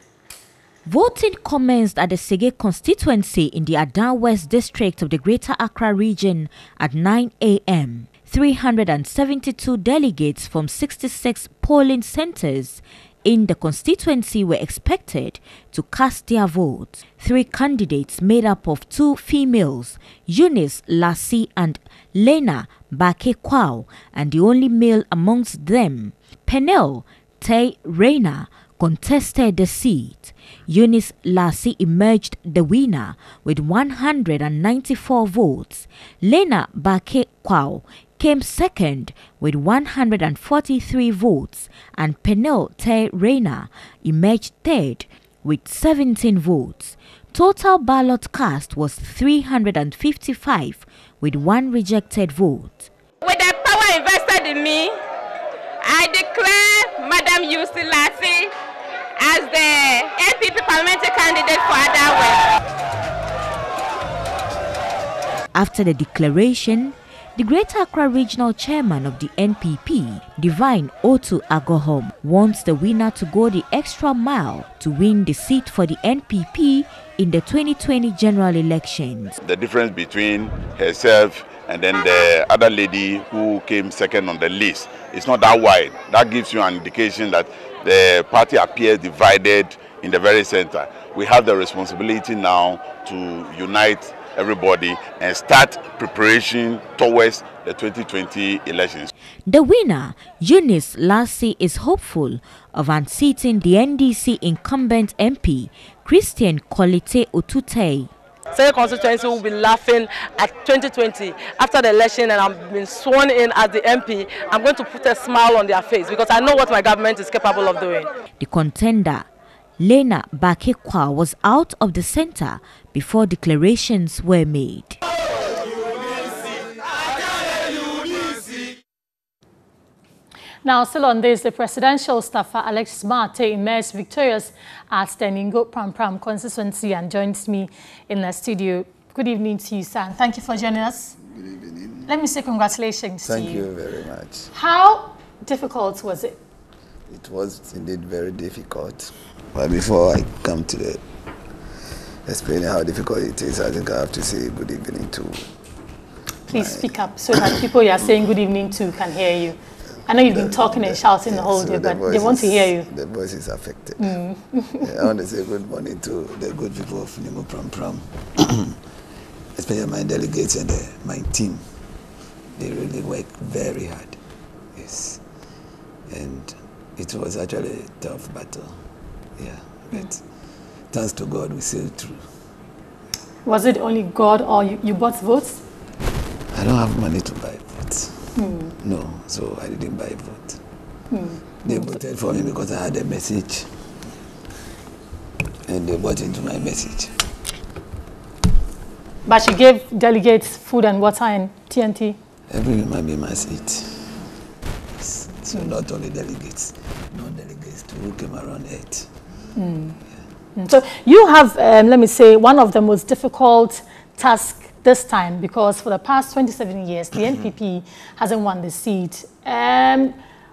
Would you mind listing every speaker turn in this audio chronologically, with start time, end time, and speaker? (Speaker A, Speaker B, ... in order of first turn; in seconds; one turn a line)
Speaker A: 0.8-52.9
Speaker B: 53.2-55.0
Speaker B: 55.8-58.5
Speaker B: 59.2-62.4
Speaker A: 65.5-79.4
Speaker C: 79.4-99.1
Speaker A: 99.5-108.1
Speaker D: 108.5-118.1
Speaker A: 118.4-119.3
Speaker A: 119.8-125.0
Speaker E: 130.7-141.2
Speaker F: 141.2-142.1
Speaker E: 142.1-143.7
Speaker F: 143.2-144.5
Speaker E: 144.5-146.4
Speaker F: 147.1-151.0
Speaker F: 152.2-155.6
Speaker F: 156.5-157.4
Speaker E: 156.5-162.9
Speaker F: 160.1-164.2
Speaker E: 164.0-164.8
Speaker F: 164.8-168.8
Speaker F: 169.6-171.7
Speaker F: 172.6-174.2
Speaker F: 174.7-175.2
Speaker F: 176.1-178.8
Speaker F: 179.4-180.2
Speaker F: 180.9-182.2
Speaker E: 183.4-185.6
Speaker F: 186.5-190.6
Speaker E: 188.4-188.7
Speaker E: 191.1-192.0
Speaker F: 191.6-193.7
Speaker F: 195.7-197.2
Speaker E: 199.2-202.2
Speaker F: 202.5-204.3
Speaker F: 205.0-209.1
Speaker E: 209.6-210.0
Speaker E: 210.6-220.2